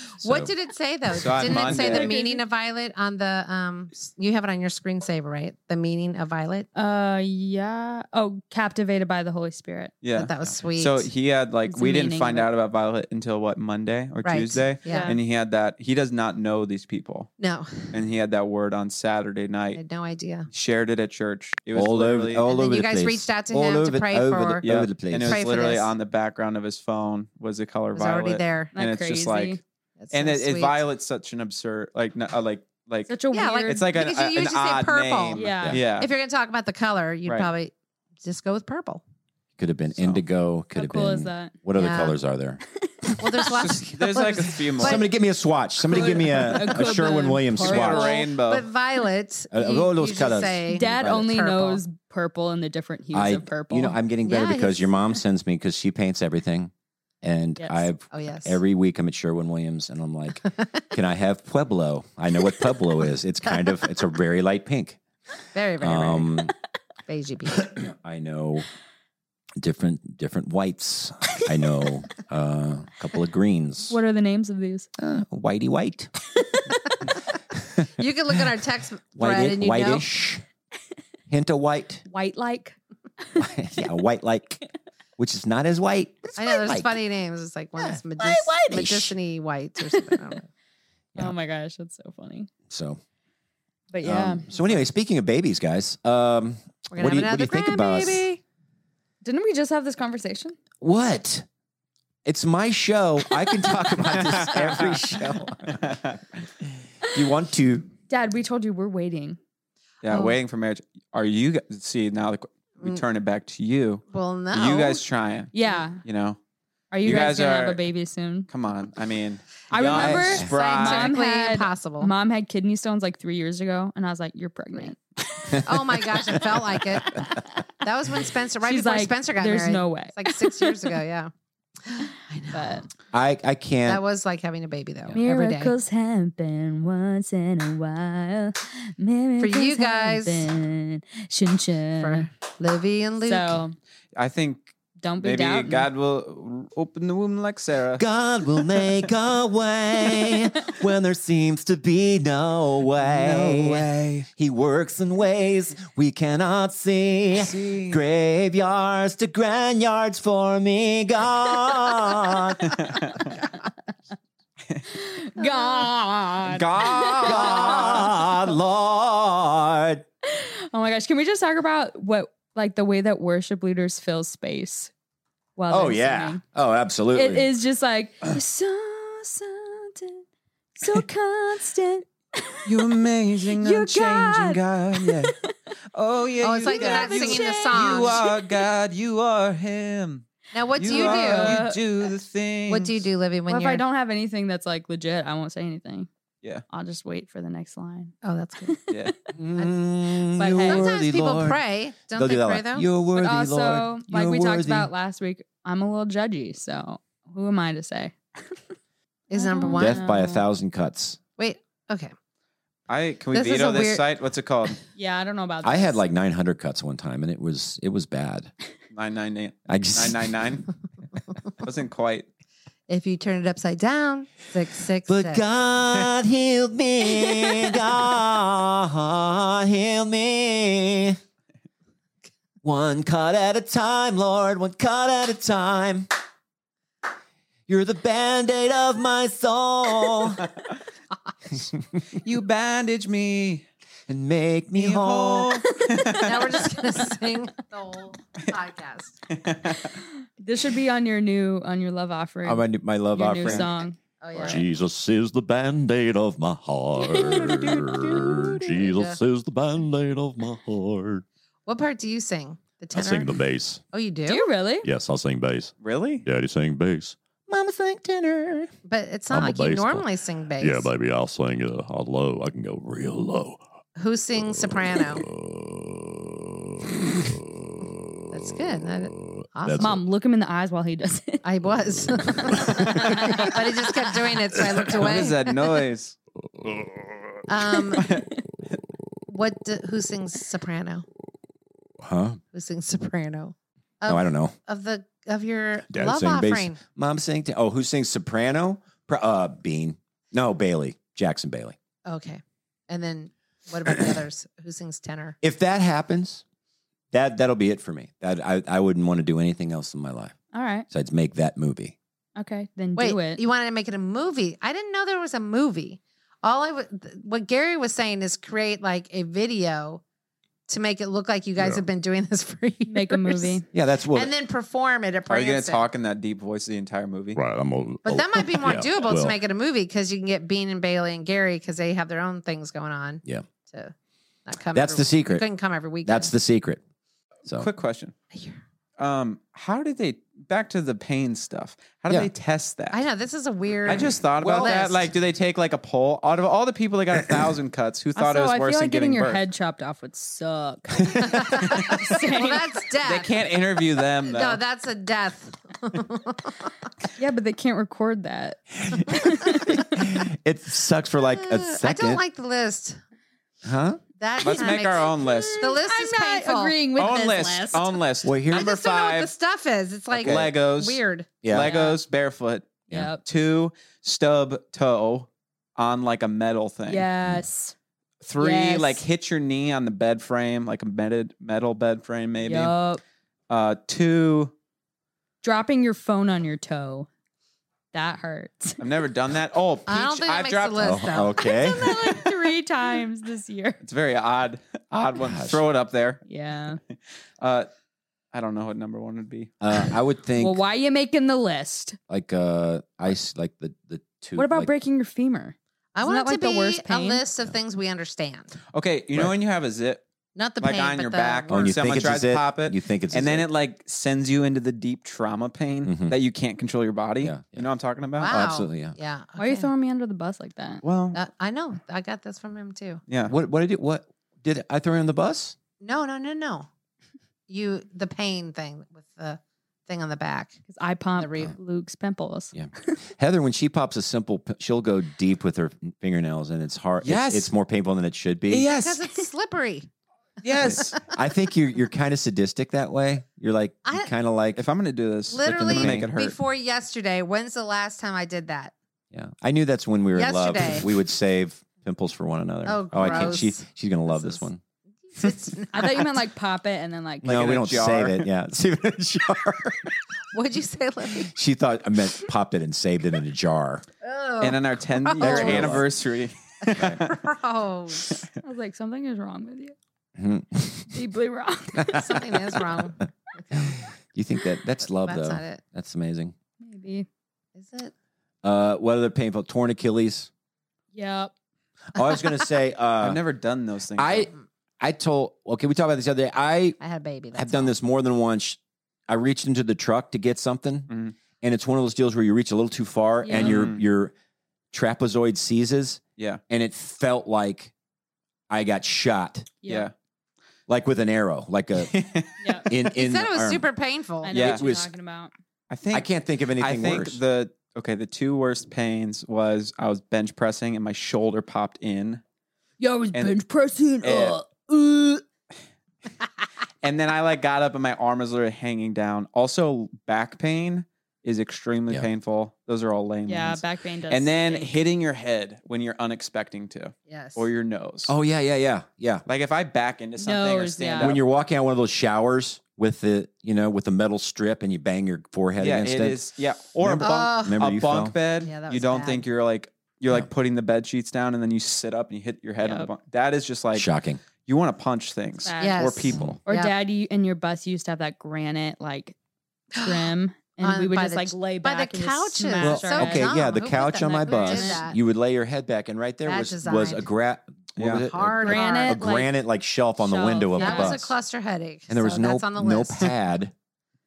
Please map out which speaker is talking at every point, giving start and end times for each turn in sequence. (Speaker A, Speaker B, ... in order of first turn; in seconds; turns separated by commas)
Speaker A: 0.2-0.5, Speaker B: 0.2-6.7, Speaker C: 1.1-2.1, Speaker D: 1.6-2.4, Speaker D: 6.7-9.9, Speaker C: 10.0-17.3, Speaker B: 10.2-11.1, Speaker D: 11.7-12.5, Speaker B: 14.2-15.2, Speaker D: 14.9-15.2, Speaker B: 17.4-17.9, Speaker C: 17.9-19.8, Speaker B: 19.7-20.5, Speaker C: 20.5-22.5, Speaker A: 21.7-25.5, Speaker B: 22.5-24.7, Speaker C: 24.6-29.6, Speaker B: 25.2-25.9, Speaker B: 27.9-28.7, Speaker D: 28.8-29.6, Speaker B: 30.0-30.8, Speaker C: 30.1-33.1, Speaker D: 33.1-33.8, Speaker B: 33.3-39.0, Speaker C: 33.7-36.1, Speaker D: 35.4-35.8, Speaker C: 37.3-37.5, Speaker A: 39.6-42.6, Speaker C: 40.0-40.2, Speaker D: 40.7-41.6, Speaker B: 41.7-42.2, Speaker D: 42.8-43.1, Speaker B: 43.2-45.1, Speaker C: 43.5-45.1, Speaker A: 44.8-48.1, Speaker D: 45.9-48.2, Speaker C: 47.6-48.7, Speaker B: 47.9-51.8, Speaker A: 49.5-51.3, Speaker D: 50.7-54.0, Speaker A: 53.1-65.0, Speaker B: 54.2-55.0, Speaker D: 57.6-57.9, Speaker B: 58.1-58.6, Speaker B: 63.5-63.8, Speaker B: 65.5-66.5, Speaker A: 65.8-66.5, Speaker B: 67.1-67.8, Speaker A: 67.7-68.7, Speaker A: 69.6-74.0, Speaker D: 73.9-74.9, Speaker A: 75.0-76.1, Speaker B: 78.0-80.1, Speaker A: 79.2-80.4, Speaker A: 81.3-82.0, Speaker D: 82.1-83.5, Speaker A: 83.4-84.6, Speaker A: 85.2-87.0, Speaker B: 86.4-90.5, Speaker A: 88.2-89.2, Speaker D: 91.2-92.5, Speaker A: 92.7-93.0, Speaker D: 93.9-94.5, Speaker A: 94.0-98.3, Speaker B: 96.9-98.4, Speaker D: 99.2-100.6, Speaker A: 100.8-101.5, Speaker A: 102.2-105.8, Speaker C: 105.8-106.2, Speaker A: 107.1-107.9, Speaker D: 108.1-109.4, Speaker C: 110.0-116.4, Speaker B: 110.1-110.4, Speaker B: 114.1-115.0, Speaker D: 115.5-116.0, Speaker D: 116.9-118.5, Speaker C: 117.0-117.8, Speaker C: 118.5-121.1, Speaker D: 119.7-125.6, Speaker A: 119.9-120.5, Speaker B: 119.9-122.1, Speaker B: 125.7-127.3, Speaker B: 127.8-131.3, Speaker D: 128.6-130.8, Speaker B: 131.9-132.8, Speaker D: 132.5-132.9, Speaker A: 133.1-134.0, Speaker B: 133.8-135.7, Speaker D: 135.2-142.3, Speaker B: 139.4-140.5, Speaker B: 142.0-143.6, Speaker D: 143.2-143.8, Speaker C: 144.2-148.0, Speaker D: 145.0-145.9, Speaker A: 148.0-162.8, Speaker C: 152.9-154.3, Speaker C: 157.3-158.0, Speaker C: 162.9-163.1, Speaker D: 164.9-168.2, Speaker C: 166.5-168.1, Speaker A: 167.2-170.0, Speaker D: 170.3-174.9, Speaker D: 175.6-176.4, Speaker A: 175.7-177.5, Speaker D: 177.1-180.2, Speaker D: 180.8-182.6, Speaker C: 182.7-185.3, Speaker D: 183.6-185.5, Speaker C: 185.9-190.3, Speaker B: 186.4-188.2, Speaker D: 186.6-188.4, Speaker B: 190.5-191.6, Speaker C: 190.8-193.0, Speaker D: 190.8-191.8, Speaker B: 192.7-193.8, Speaker D: 193.5-196.1, Speaker D: 196.7-198.2, Speaker B: 198.2-198.8, Speaker D: 198.7-199.1, Speaker A: 199.3-201.6, Speaker D: 200.4-200.9, Speaker B: 200.4-202.9, Speaker A: 202.1-204.9, Speaker D: 203.2-208.6, Speaker B: 209.3-210.1, Speaker D: 209.3-210.4, Speaker A: 209.8-211.2, Speaker B: 211.4-212.1, Speaker C: 212.9-214.8, Speaker B: 213.3-214.1, Speaker D: 215.0-216.0, Speaker A: 215.6-218.5, Speaker C: 218.9-220.7, Speaker A: 219.7-220.6, Speaker C: 221.6-222.3, Speaker B: 222.9-225.4, Speaker A: 225.1-231.2, Speaker A: 232.6-236.1, Speaker A: 237.7-240.4, Speaker A: 241.7-242.0, Speaker C: 242.2-243.6, Speaker A: 244.1-245.6, Speaker C: 244.8-246.6, Speaker B: 246.1-249.2, Speaker C: 249.3-249.9, Speaker D: 250.4-254.0, Speaker A: 252.4-253.7, Speaker B: 254.2-254.7, Speaker E: 254.5-261.2, Speaker D: 257.0-257.8, Speaker B: 257.2-259.2, Speaker B: 261.7-263.4, Speaker E: 262.9-263.8, Speaker B: 263.9-264.5, Speaker D: 264.3-264.9, Speaker E: 264.8-265.7, Speaker C: 265.8-266.2, Speaker E: 266.2-267.2, Speaker A: 267.5-268.7, Speaker B: 268.9-270.9, Speaker E: 269.3-270.1, Speaker E: 270.6-273.6, Speaker B: 274.0-275.2, Speaker E: 275.4-276.4, Speaker B: 278.3-280.0, Speaker D: 279.8-281.4, Speaker B: 281.4-285.7, Speaker C: 284.9-286.1, Speaker E: 286.6-287.3, Speaker B: 287.5-288.1, Speaker C: 288.0-288.8, Speaker B: 289.3-291.1, Speaker A: 292.0-292.4, Speaker B: 292.5-296.8, Speaker A: 294.1-294.6, Speaker A: 295.9-301.8, Speaker B: 302.1-305.4, Speaker A: 305.4-306.4, Speaker A: 307.1-310.4, Speaker D: 310.5-310.9, Speaker A: 310.9-312.0, Speaker D: 312.4-313.4, Speaker B: 313.0-320.0, Speaker B: 320.7-325.9, Speaker D: 322.9-323.6, Speaker A: 323.7-324.3, Speaker C: 325.3-327.4, Speaker E: 327.4-329.4, Speaker B: 328.0-333.9, Speaker B: 334.5-336.3, Speaker A: 334.7-335.5, Speaker A: 336.1-336.8, Speaker C: 337.5-338.1, Speaker B: 338.3-338.6, Speaker C: 339.0-343.0, Speaker B: 342.9-345.1, Speaker C: 343.9-349.4, Speaker A: 344.4-344.8, Speaker D: 348.2-352.6, Speaker B: 351.2-353.3, Speaker C: 353.0-354.6, Speaker B: 354.3-356.7, Speaker D: 357.2-359.9, Speaker A: 359.8-362.2, Speaker B: 361.4-363.0, Speaker A: 363.6-364.0, Speaker B: 364.2-366.8, Speaker C: 364.4-365.7, Speaker D: 364.5-368.0, Speaker C: 367.0-369.3, Speaker A: 368.2-368.7, Speaker B: 368.5-371.8, Speaker C: 370.1-377.1, Speaker D: 371.6-372.0, Speaker D: 372.9-373.2, Speaker D: 376.9-377.8, Speaker C: 378.2-382.7, Speaker D: 378.4-379.0, Speaker D: 382.4-383.0, Speaker C: 383.5-384.5, Speaker D: 385.4-387.1, Speaker D: 387.9-388.8, Speaker C: 388.8-391.1, Speaker B: 389.9-391.5, Speaker A: 390.8-391.9, Speaker D: 391.4-393.8, Speaker C: 393.8-396.2, Speaker A: 395.0-395.6, Speaker D: 396.3-396.8, Speaker C: 397.4-397.7, Speaker C: 398.3-399.9, Speaker A: 399.6-400.6, Speaker D: 400.4-402.0, Speaker A: 402.1-404.7, Speaker D: 404.4-407.2, Speaker B: 405.9-408.5, Speaker C: 408.7-410.0, Speaker B: 410.4-411.7, Speaker C: 410.6-418.3, Speaker A: 411.5-413.5, Speaker A: 415.8-416.2, Speaker A: 417.2-417.7, Speaker B: 418.2-419.7, Speaker A: 418.2-418.9, Speaker D: 419.4-420.8, Speaker C: 420.8-421.2, Speaker B: 421.1-423.0, Speaker C: 423.1-423.4, Speaker A: 423.3-425.6, Speaker B: 425.8-426.7, Speaker B: 427.5-430.6, Speaker D: 430.7-432.9, Speaker B: 431.2-431.5, Speaker A: 432.5-438.7, Speaker C: 437.0-437.5, Speaker C: 438.5-439.1, Speaker B: 438.7-439.9, Speaker C: 440.4-441.0, Speaker A: 440.6-444.6, Speaker B: 443.9-444.1, Speaker C: 444.6-446.4, Speaker B: 445.3-448.7, Speaker A: 445.4-446.1, Speaker A: 449.1-454.6, Speaker B: 450.2-450.9, Speaker B: 452.7-454.5, Speaker B: 455.1-456.1, Speaker D: 455.7-457.3, Speaker A: 457.2-459.9, Speaker C: 457.2-458.3, Speaker B: 460.3-461.3, Speaker A: 461.3-463.9, Speaker B: 464.0-465.8, Speaker C: 464.4-467.1, Speaker A: 465.2-465.9, Speaker B: 466.7-468.2, Speaker D: 468.4-469.8, Speaker A: 470.2-470.9, Speaker D: 470.9-472.1, Speaker B: 472.0-473.7, Speaker A: 473.5-476.3, Speaker B: 475.0-475.6, Speaker D: 476.6-477.1, Speaker B: 477.6-477.9, Speaker A: 478.4-480.3, Speaker D: 480.9-481.3, Speaker A: 481.9-483.2, Speaker C: 483.0-484.3, Speaker A: 484.0-484.3, Speaker A: 484.8-486.8, Speaker B: 486.8-487.7, Speaker A: 487.4-490.9, Speaker C: 490.9-491.1, Speaker A: 491.4-494.1, Speaker D: 493.2-493.7, Speaker C: 493.3-493.8, Speaker A: 494.7-497.7, Speaker A: 498.5-499.5, Speaker D: 499.6-499.9, Speaker C: 499.7-499.9, Speaker A: 500.7-502.0, Speaker C: 501.9-502.4, Speaker D: 502.4-502.7, Speaker A: 502.7-503.7, Speaker B: 502.9-504.4, Speaker D: 504.2-505.3, Speaker C: 504.3-504.6, Speaker A: 504.4-504.9, Speaker C: 505.7-512.2, Speaker A: 505.9-507.2, Speaker D: 512.8-515.2, Speaker C: 513.1-513.4, Speaker C: 514.0-514.4, Speaker C: 516.8-528.1, Speaker D: 523.3-524.7, Speaker B: 527.1-527.5, Speaker A: 528.1-529.2, Speaker C: 529.3-531.2, Speaker D: 530.2-531.2, Speaker A: 531.0-536.2, Speaker C: 535.6-546.4, Speaker A: 536.8-538.2, Speaker B: 537.0-537.6, Speaker B: 538.4-539.2, Speaker D: 542.6-542.9, Speaker A: 543.7-544.2, Speaker D: 545.5-545.9, Speaker B: 545.6-546.8, Speaker A: 546.1-546.4, Speaker D: 546.5-549.1, Speaker B: 549.8-550.1, Speaker D: 549.8-553.3, Speaker B: 550.6-555.0, Speaker A: 552.6-561.1, Speaker D: 554.0-554.9, Speaker B: 556.2-557.1, Speaker C: 557.8-558.1, Speaker B: 558.0-559.1, Speaker D: 558.4-559.3, Speaker D: 560.0-561.0, Speaker B: 560.6-563.1, Speaker A: 561.9-563.5